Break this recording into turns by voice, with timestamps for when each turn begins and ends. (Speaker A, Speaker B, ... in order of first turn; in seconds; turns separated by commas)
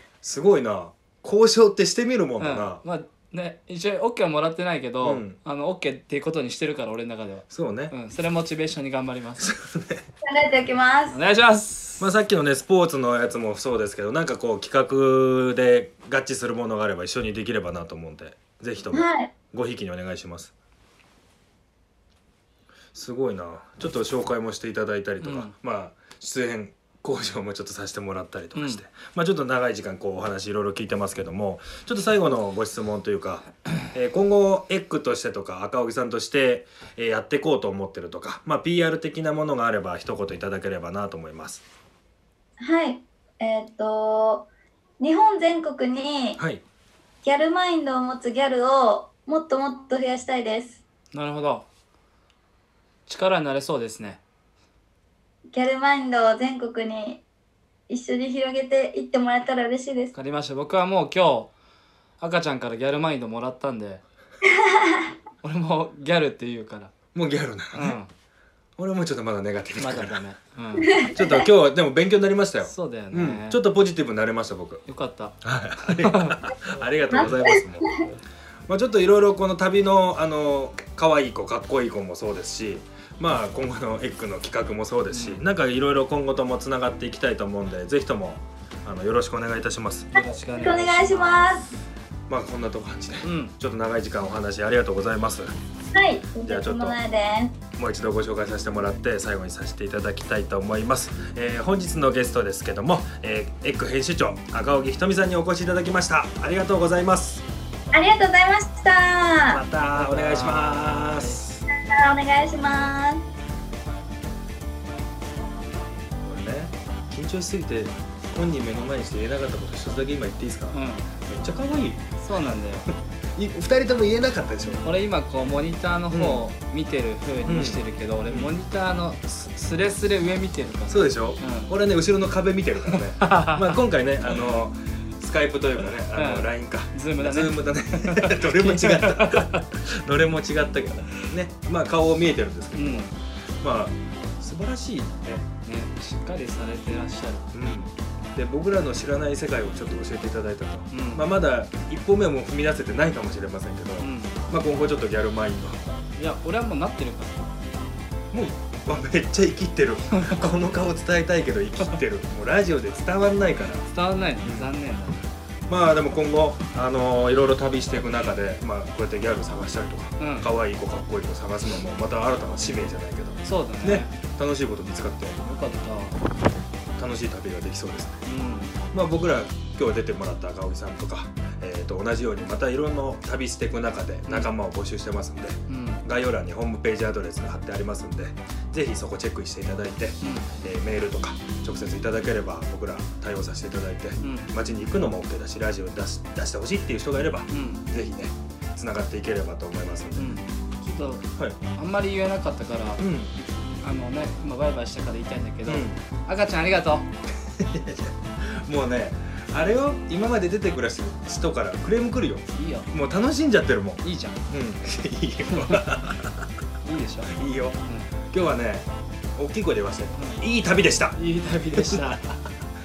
Speaker A: 0.2-2.8, Speaker B: 2.4-9.5, Speaker A: 5.0-5.4, Speaker A: 7.5-7.9, Speaker A: 9.4-10.1, Speaker C: 10.2-11.2, Speaker B: 11.1-12.1, Speaker A: 12.0-20.5, Speaker C: 18.9-19.3, Speaker A: 22.9-41.6, Speaker B: 25.2-25.5, Speaker B: 28.6-28.8, Speaker C: 42.6-44.5, Speaker C: 45.0-46.4, Speaker A: 46.4-46.6, Speaker C: 47.2-50.8, Speaker B: 51.1-51.7, Speaker B: 53.1-54.2, Speaker C: 55.5-57.2, Speaker C: 57.9-60.1, Speaker B: 60.1-61.5, Speaker B: 62.2-64.0, Speaker C: 64.5-65.1, Speaker B: 65.4-66.9, Speaker A: 67.1-68.0, Speaker B: 67.7-68.1, Speaker A: 68.8-70.2, Speaker B: 69.8-71.0, Speaker C: 70.8-71.4, Speaker A: 71.1-74.8, Speaker B: 72.7-73.6, Speaker B: 74.9-76.5, Speaker A: 75.4-78.1, Speaker C: 77.1-78.0, Speaker A: 78.7-90.1, Speaker B: 85.1-85.4, Speaker B: 90.1-91.6, Speaker C: 90.2-91.7, Speaker A: 92.3-95.5, Speaker B: 93.2-93.5, Speaker C: 95.9-97.6, Speaker A: 96.5-97.0, Speaker A: 97.7-107.5, Speaker C: 107.9-109.6, Speaker A: 109.5-111.6, Speaker B: 109.9-111.5, Speaker C: 111.7-113.2, Speaker A: 116.2-122.1, Speaker B: 120.7-121.1, Speaker B: 122.2-122.9, Speaker A: 122.9-124.9, Speaker B: 124.8-131.7, Speaker A: 126.1-126.4, Speaker A: 127.5-128.5, Speaker A: 130.9-145.5, Speaker B: 133.2-133.8, Speaker B: 136.2-139.7, Speaker B: 142.8-143.1, Speaker B: 145.7-147.5, Speaker A: 147.5-155.9, Speaker B: 150.9-151.3, Speaker B: 154.0-154.4, Speaker B: 156.2-157.5, Speaker A: 158.3-163.8, Speaker B: 160.1-160.4, Speaker B: 163.9-165.3, Speaker A: 164.4-164.7, Speaker A: 165.7-175.4, Speaker B: 170.2-170.5, Speaker B: 173.4-174.1, Speaker B: 175.4-176.2, Speaker A: 177.0-178.2, Speaker B: 178.2-178.8, Speaker A: 178.9-200.4, Speaker B: 185.7-186.0, Speaker B: 190.2-190.5, Speaker B: 194.2-194.5, Speaker B: 197.5-197.9, Speaker B: 200.2-203.0, Speaker A: 203.0-203.3, Speaker B: 203.8-207.1, Speaker A: 205.7-206.0, Speaker A: 207.4-216.5, Speaker B: 212.5-212.9, Speaker B: 214.0-214.4, Speaker B: 215.5-215.8, Speaker B: 216.8-218.1, Speaker A: 217.3-221.2, Speaker B: 220.2-220.4, Speaker B: 221.2-222.2, Speaker A: 221.7-222.5